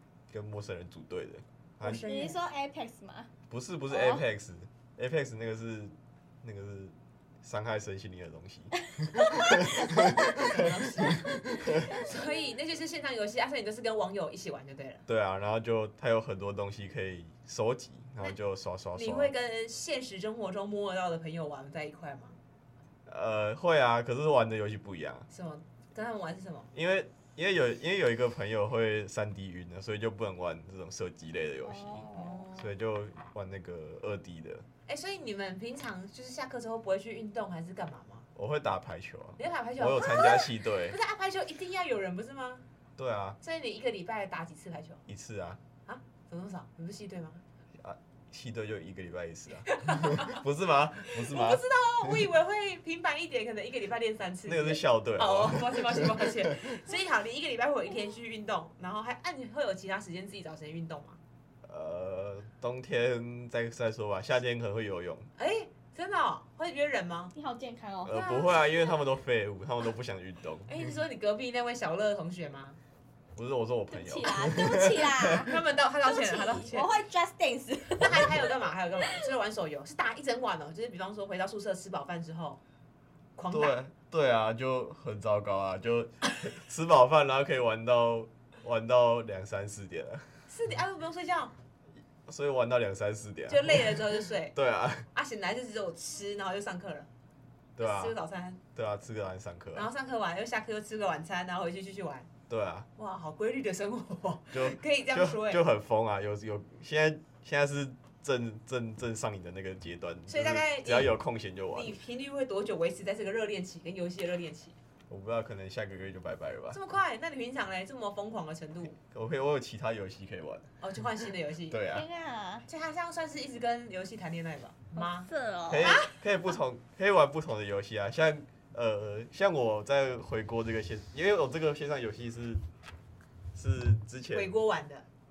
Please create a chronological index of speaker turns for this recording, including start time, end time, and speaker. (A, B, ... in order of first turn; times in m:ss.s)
0:00.3-0:02.0 A
0:01.8-0:02.4 B
0:01.8-0:03.3 C
0:03.5-0:10.5 A
0:03.9-0:04.2 C
0:09.0-0:10.4 C
0:10.2-0:15.0 B
0:11.8-0:12.4 C
0:15.1-0:19.3 A
0:18.9-0:22.4 B
0:23.0-0:25.3 A
0:25.3-0:26.7 B
0:26.7-0:34.6 A
0:31.6-0:32.4 C
0:32.1-0:32.7 B
0:34.9-0:38.3 B
0:38.3-0:41.0 A
0:39.4-0:42.6 B
0:43.0-0:43.4 A
0:43.4-0:45.0 B
0:45.1-0:45.6 A
0:45.8-0:47.4 B
0:47.7-0:52.2 A
0:49.7-0:50.4 B
0:51.1-1:01.2 B
0:54.4-0:56.5 A
1:01.6-1:05.3 A
1:05.4-1:07.3 B
1:07.3-1:08.5 C
1:08.0-1:10.7 A
1:10.7-1:12.8 B
1:13.3-1:15.5 A
1:13.9-1:15.5 C
1:15.4-1:16.9 B
1:16.0-1:18.5 C
1:18.0-1:22.6 B
1:23.4-1:23.8 B
1:23.5-1:30.5 A
1:30.5-1:31.5 B
1:32.3-1:33.9 A
1:33.5-1:34.5 B
1:34.5-1:35.1 A
1:35.1-1:37.1 B
1:37.8-1:38.1 A
1:37.8-1:38.6 B
1:38.7-1:39.9 A
1:39.7-1:42.3 B
1:42.5-1:42.9 A
1:43.0-1:45.6 B
1:44.5-1:52.0 A
1:50.3-1:51.2 B
1:51.7-1:54.8 B
1:55.1-1:56.8 A
1:56.7-1:59.0 B
1:59.1-2:00.7 A
2:00.8-2:01.8 B
2:01.7-2:02.0 A
2:01.9-2:02.6 C
2:02.7-2:05.3 B
2:05.0-2:06.0 C
2:05.7-2:12.6 A
2:05.8-2:06.1 B
2:13.5-2:14.6 A
2:14.3-2:15.0 B